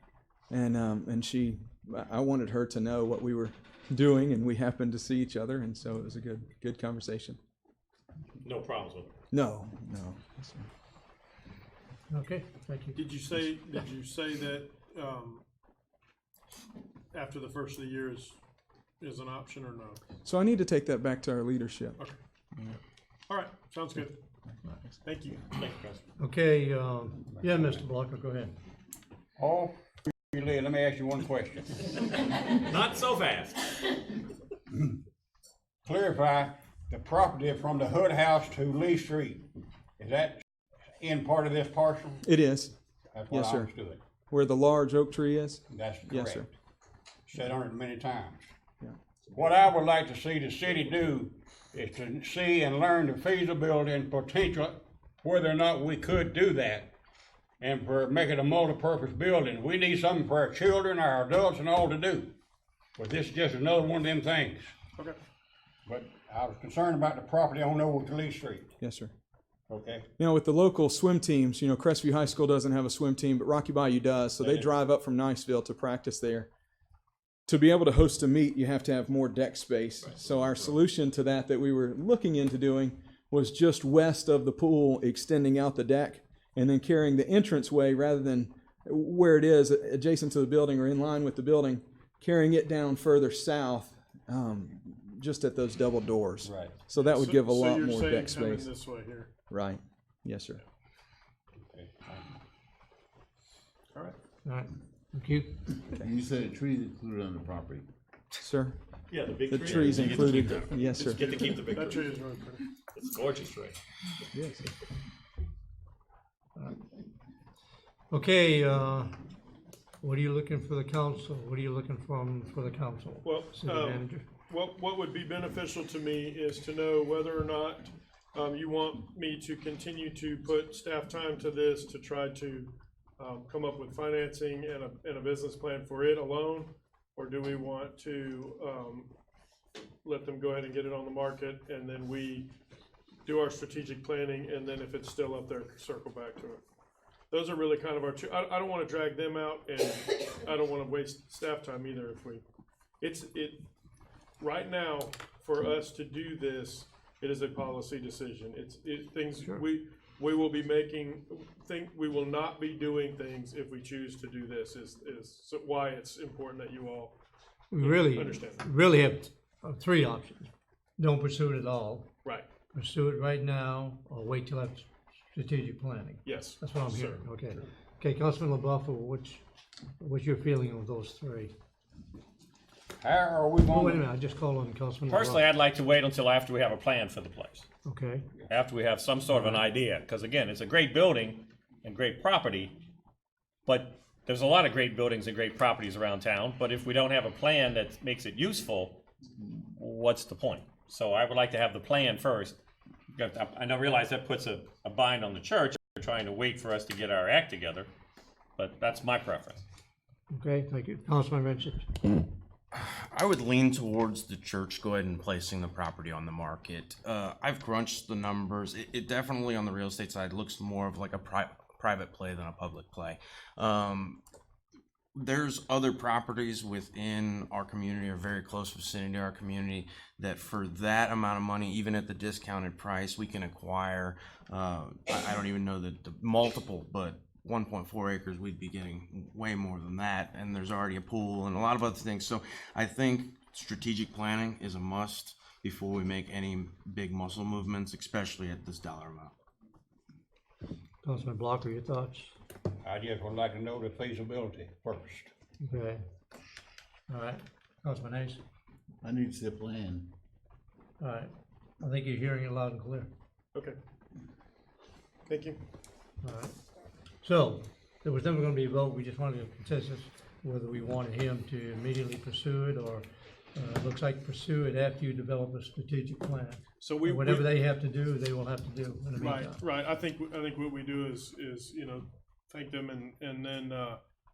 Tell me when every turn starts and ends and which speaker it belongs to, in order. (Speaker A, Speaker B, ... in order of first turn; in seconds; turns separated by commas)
Speaker A: 0.5-7.4, Speaker B: 8.4-9.1, Speaker A: 9.3-10.7, Speaker C: 12.1-13.8, Speaker D: 12.9-15.4, Speaker D: 17.1-18.4, Speaker D: 19.0-20.0, Speaker A: 20.2-22.0, Speaker D: 23.3-24.2, Speaker A: 24.7-24.9, Speaker D: 25.0-25.4, Speaker B: 25.6-26.0, Speaker C: 26.2-28.5, Speaker E: 29.4-29.7, Speaker E: 30.3-31.8, Speaker B: 32.5-33.7, Speaker E: 35.8-39.5, Speaker E: 40.0-40.4, Speaker E: 41.0-42.2, Speaker A: 42.2-42.7, Speaker E: 43.1-44.0, Speaker A: 43.3-43.7, Speaker A: 44.3-46.5, Speaker E: 45.7-46.5, Speaker E: 47.2-48.5, Speaker E: 49.3-56.9, Speaker E: 57.6-62.3, Speaker E: 63.0-64.7, Speaker E: 65.8-68.7, Speaker A: 68.8-69.1, Speaker E: 69.7-70.0, Speaker A: 70.2-76.5, Speaker E: 74.4-74.7, Speaker A: 77.5-98.7, Speaker E: 96.4-96.7, Speaker D: 97.0-99.3, Speaker A: 99.5-100.6, Speaker E: 101.7-102.3, Speaker C: 104.4-105.5, Speaker F: 105.9-107.8, Speaker A: 108.4-108.8, Speaker B: 109.1-112.1, Speaker A: 109.5-111.2, Speaker D: 111.2-112.6, Speaker B: 112.9-113.8, Speaker A: 114.3-114.7, Speaker C: 118.1-119.2, Speaker C: 120.0-124.3, Speaker D: 123.2-139.1, Speaker D: 140.0-142.5, Speaker D: 143.2-146.6, Speaker D: 147.3-152.4, Speaker D: 153.0-153.6, Speaker D: 154.4-167.1, Speaker C: 159.4-159.6, Speaker C: 167.7-179.4, Speaker D: 167.8-168.6, Speaker D: 172.2-172.5, Speaker D: 176.2-177.2, Speaker C: 180.0-181.5, Speaker E: 183.0-184.0, Speaker C: 183.6-185.4, Speaker B: 185.1-187.7, Speaker C: 187.8-188.3, Speaker B: 188.5-192.7, Speaker B: 193.7-199.0, Speaker B: 199.7-202.6, Speaker B: 203.1-207.9, Speaker B: 208.6-209.6, Speaker C: 210.3-211.8, Speaker G: 212.7-224.2, Speaker G: 225.1-249.3, Speaker C: 251.0-252.3, Speaker E: 252.8-255.3, Speaker C: 255.6-256.0, Speaker C: 257.1-258.4, Speaker F: 259.0-260.1, Speaker C: 261.0-263.1, Speaker D: 265.3-265.6, Speaker C: 266.2-266.5, Speaker C: 267.2-279.6, Speaker D: 276.8-277.5, Speaker D: 279.2-284.0